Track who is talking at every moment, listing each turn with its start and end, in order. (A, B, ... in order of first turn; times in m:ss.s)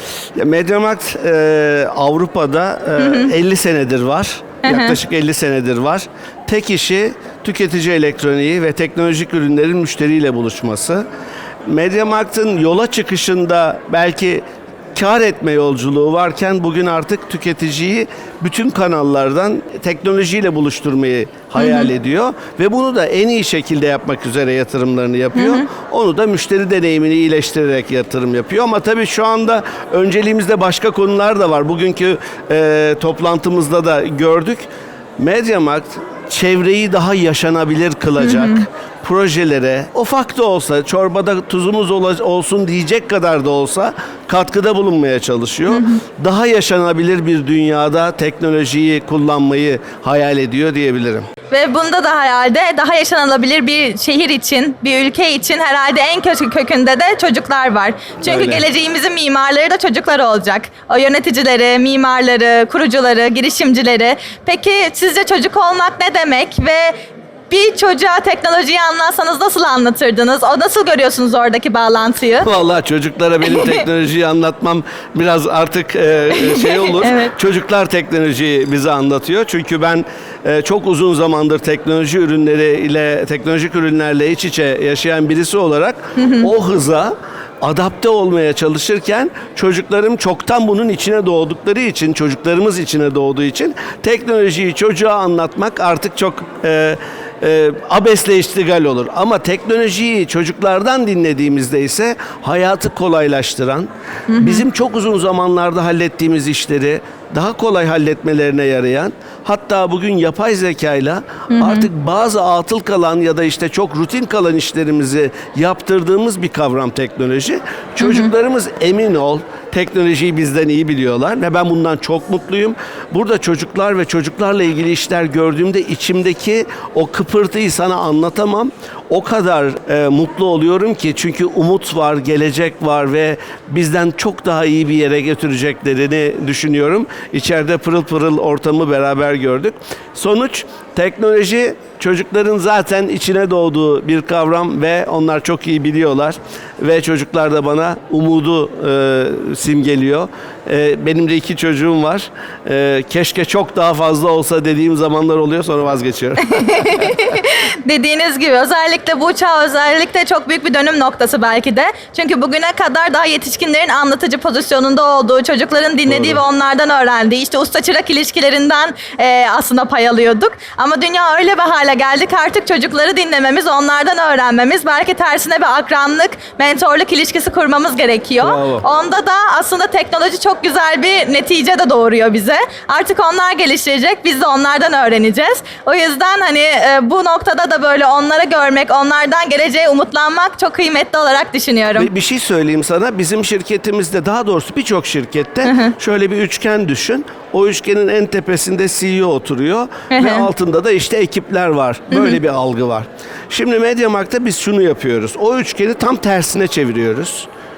0:00.3-0:11.0 A
0:03.0-0:03.3 B
0:04.6-0:05.0 B
0:11.6-0:14.4 A
0:14.9-0:34.6 A
0:21.6-0:21.9 B
0:25.3-0:25.6 B
0:35.2-0:51.3 A
0:38.2-0:38.6 B
0:45.7-0:46.0 B
0:51.5-1:07.0 B
0:58.2-0:58.6 A
1:07.5-1:12.5 B
1:12.4-2:36.5 A
1:13.4-1:13.8 B
1:16.4-1:17.3 B
1:26.2-1:26.5 B
1:44.3-1:44.6 B
1:51.5-1:51.9 B
1:58.0-1:58.3 B
2:36.4-3:12.1 B
2:46.1-2:46.4 A
2:58.4-2:58.9 A
3:12.0-3:27.5 A
3:15.6-3:15.9 B
3:20.1-3:20.5 B
3:22.1-3:22.4 B